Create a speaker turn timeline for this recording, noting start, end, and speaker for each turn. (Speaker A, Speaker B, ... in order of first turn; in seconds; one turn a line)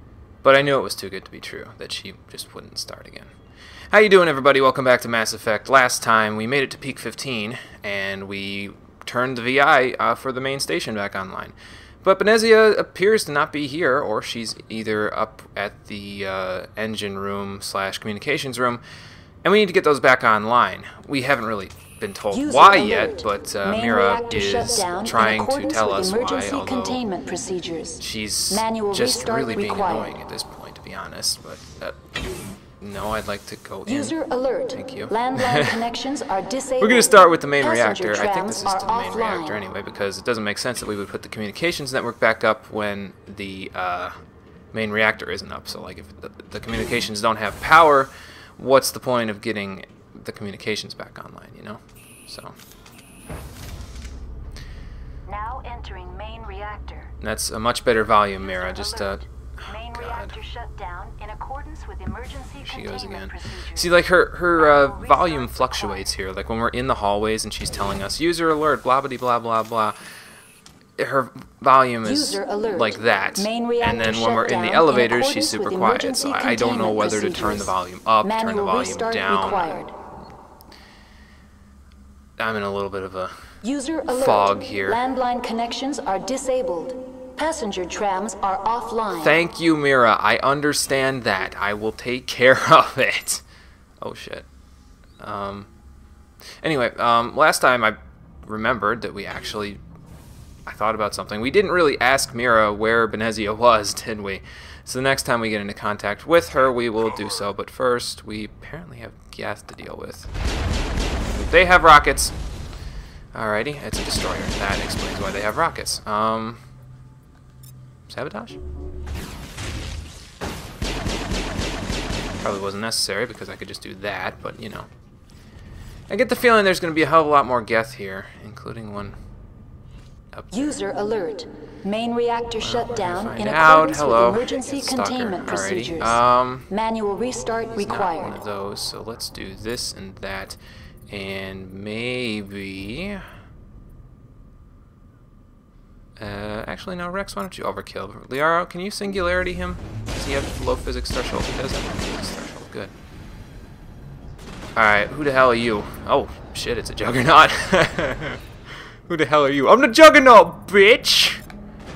Speaker A: 0.4-3.3
Speaker A: 3.9-18.8
Speaker A: 19.4-27.0
Speaker B: 22.3-30.1
Speaker A: 28.0-32.0
Speaker A: 32.8-34.2
Speaker B: 33.9-39.6
Speaker A: 34.7-35.9
Speaker A: 36.8-44.2
Speaker A: 44.7-52.5
Speaker B: 55.2-57.1
Speaker A: 57.2-60.4
Speaker B: 58.4-63.9
Speaker A: 62.6-70.0
Speaker B: 64.5-66.0
Speaker A: 71.0-79.8
Speaker B: 72.0-79.9
Speaker A: 82.4-83.5
Speaker B: 83.6-89.4
Speaker A: 84.1-85.0
Speaker A: 89.2-93.4
Speaker A: 94.0-94.5
Speaker A: 95.2-95.7
Speaker A: 96.6-99.8
Speaker A: 100.7-110.3
Speaker A: 111.3-112.3
Speaker A: 113.3-116.6
Speaker A: 118.1-118.6
Speaker A: 122.4-124.9
Speaker A: 126.1-129.2
Speaker A: 130.3-130.8
Speaker B: 130.5-138.3
Speaker A: 132.6-136.7
Speaker A: 137.8-140.6
Speaker A: 141.1-143.3
Speaker A: 146.2-152.9
Speaker A: 154.7-161.4